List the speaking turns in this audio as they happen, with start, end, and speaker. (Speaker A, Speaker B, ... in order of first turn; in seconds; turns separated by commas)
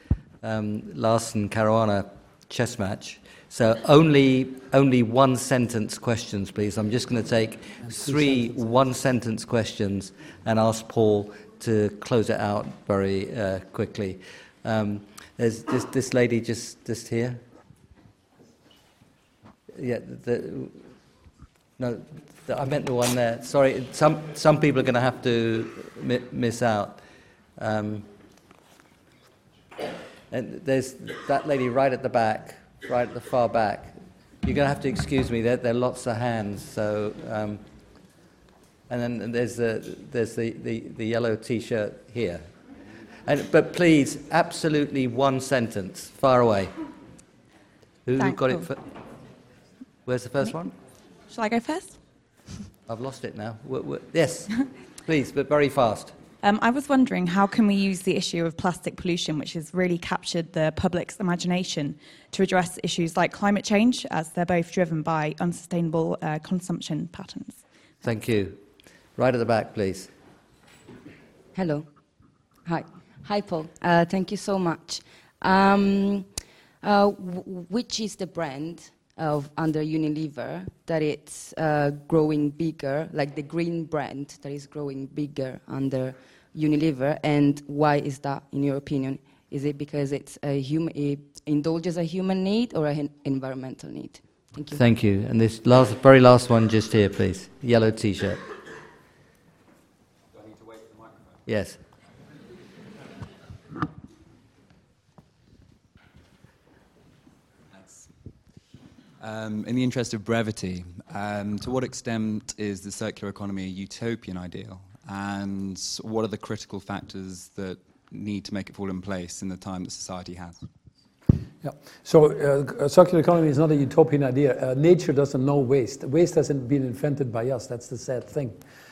Speaker A: 0.4-17.4, Speaker B: 7.8-8.6, Speaker A: 19.7-20.8, Speaker A: 21.8-27.0, Speaker A: 27.6-28.1, Speaker A: 30.3-37.6, Speaker A: 38.9-42.5, Speaker A: 43.2-46.7, Speaker A: 48.0-48.8, Speaker C: 48.2-48.7, Speaker A: 50.0-50.7, Speaker C: 51.3-52.0, Speaker A: 52.9-54.5, Speaker A: 55.0-56.1, Speaker C: 56.4-67.6, Speaker A: 68.0-68.6, Speaker A: 69.2-70.1, Speaker D: 71.5-71.9, Speaker D: 72.7-76.3, Speaker D: 76.8-94.8, Speaker A: 94.7-98.4, Speaker A: 101.5-101.8, Speaker E: 107.7-108.1, Speaker E: 109.2-120.6, Speaker B: 121.6-128.6